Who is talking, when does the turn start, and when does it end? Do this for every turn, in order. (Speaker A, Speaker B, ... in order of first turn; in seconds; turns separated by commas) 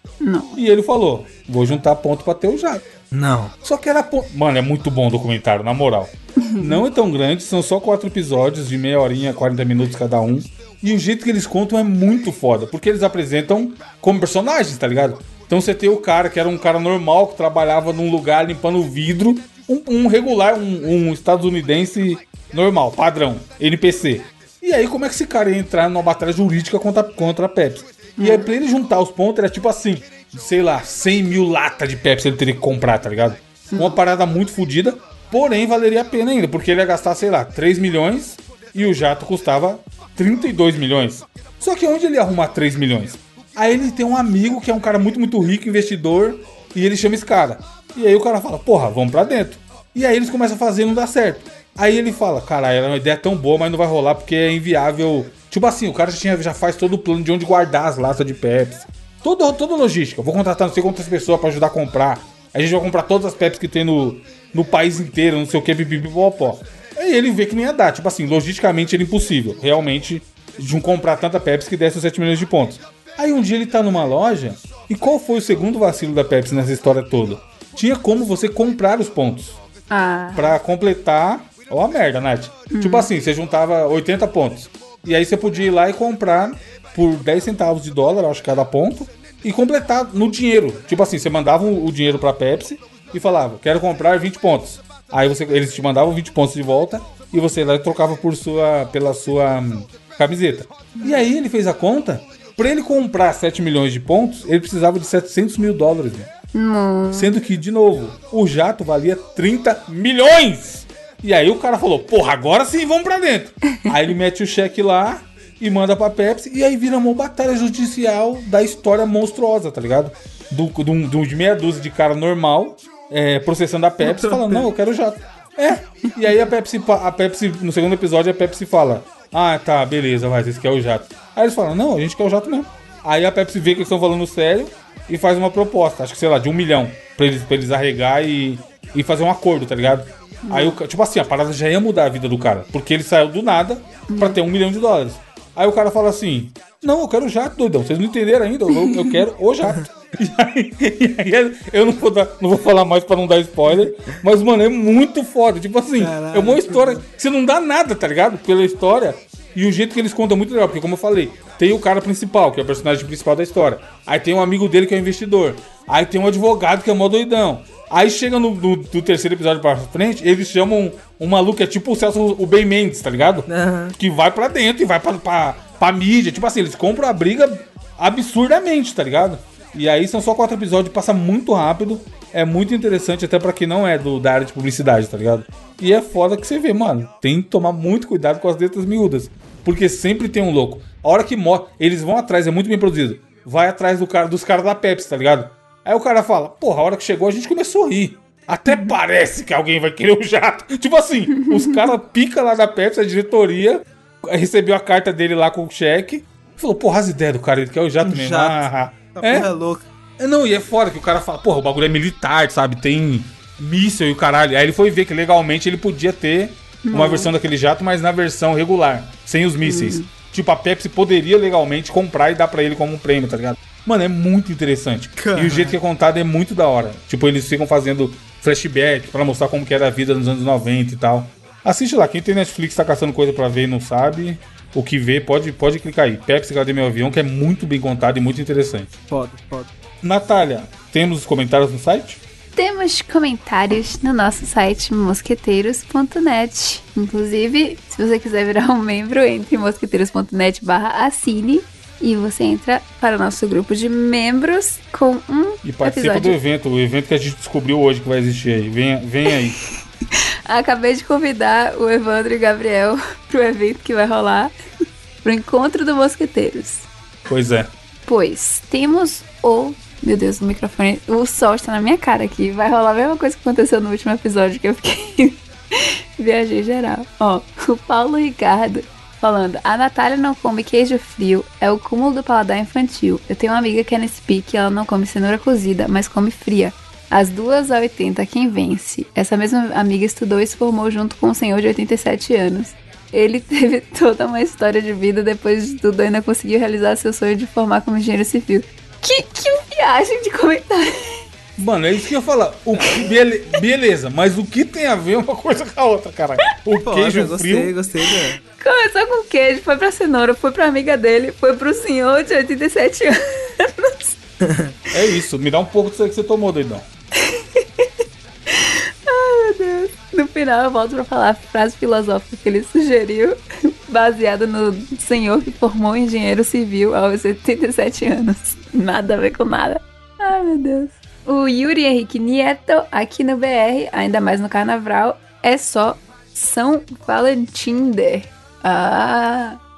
Speaker A: 0.2-0.6, Speaker B: 0.6-2.9, Speaker C: 3.1-3.5, Speaker B: 3.6-79.6, Speaker A: 6.4-6.9, Speaker A: 28.2-28.5, Speaker A: 33.7-34.0, Speaker A: 79.9-80.6, Speaker B: 80.4-106.3, Speaker A: 82.7-83.1, Speaker A: 101.0-101.3, Speaker A: 106.5-107.3, Speaker B: 107.1-209.5, Speaker C: 124.0-124.7, Speaker A: 140.4-140.8, Speaker A: 144.1-144.4, Speaker C: 156.0-157.0, Speaker C: 173.5-174.0, Speaker C: 208.0-209.9, Speaker B: 210.2-238.9, Speaker A: 216.8-217.3, Speaker A: 219.6-220.1, Speaker C: 225.2-225.8, Speaker C: 239.1-239.7, Speaker B: 240.0-242.2, Speaker A: 242.6-256.4, Speaker B: 255.6-259.6, Speaker A: 260.1-264.5, Speaker A: 265.2-266.9, Speaker B: 267.3-267.7, Speaker A: 268.1-301.2, Speaker B: 301.6-307.8, Speaker C: 302.8-303.1, Speaker C: 306.8-308.4, Speaker A: 308.6-314.1, Speaker C: 314.4-314.8, Speaker B: 314.9-316.9, Speaker A: 317.2-317.9, Speaker A: 318.5-339.6